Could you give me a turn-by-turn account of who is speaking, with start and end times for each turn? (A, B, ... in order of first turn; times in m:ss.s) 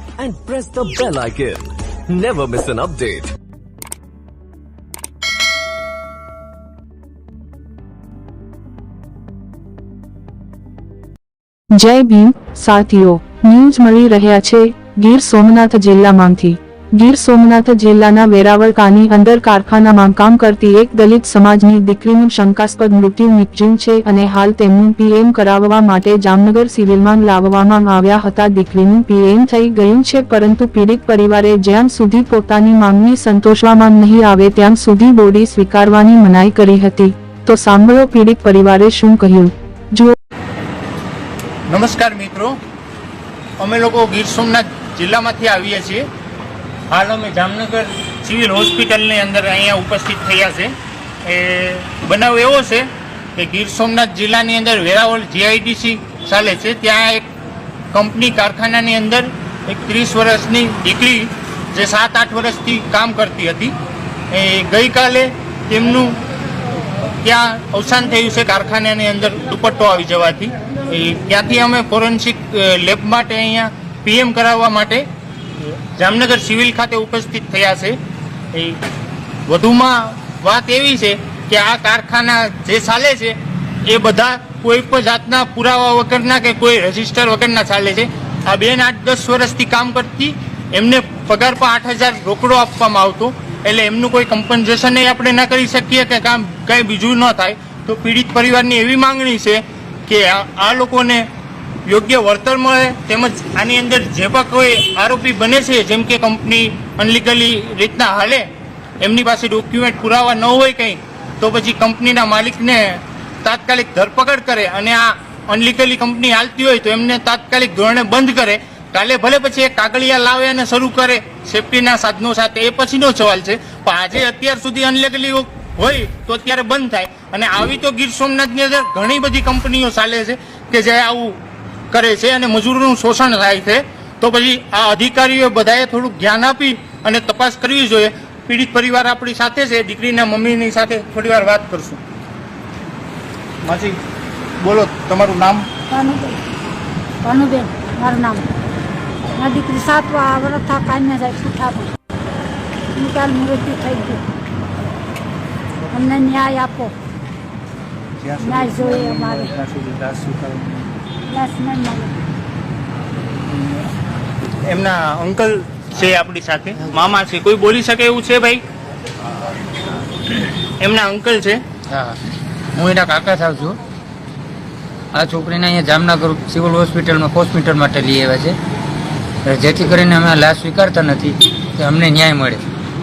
0:00.2-0:03.3 A
0:11.7-0:40.1 B
0:41.7-0:42.6 C
0:43.6-0:46.0 C
0:46.9-0:50.7 C
0:51.2-0:57.3 C
0:57.9-1:03.7 C
1:04.3-1:06.2 C
1:07.2-1:15.1 C
1:15.6-1:18.0 C
1:18.5-1:18.8 C
1:19.5-1:41.3 C
1:41.8-1:48.5 C
1:49.0-2:11.4 C
2:11.9-2:22.0 C
2:23.6-2:24.0 C
2:24.6-2:25.7 C
2:25.9-2:26.4 D
2:27.2-2:28.5 D
2:29.3-2:31.9 D
2:32.9-2:34.2 D
2:35.9-2:36.9 D
2:38.2-2:40.7 C
2:38.4-2:39.5 D
2:41.2-2:42.1 D
2:43.5-2:43.9 C
2:44.7-2:48.6 C
2:50.4-2:51.6 C
2:51.9-2:52.2 E
2:52.7-2:53.8 E
2:55.1-2:58.6 E
2:59.4-3:02.6 E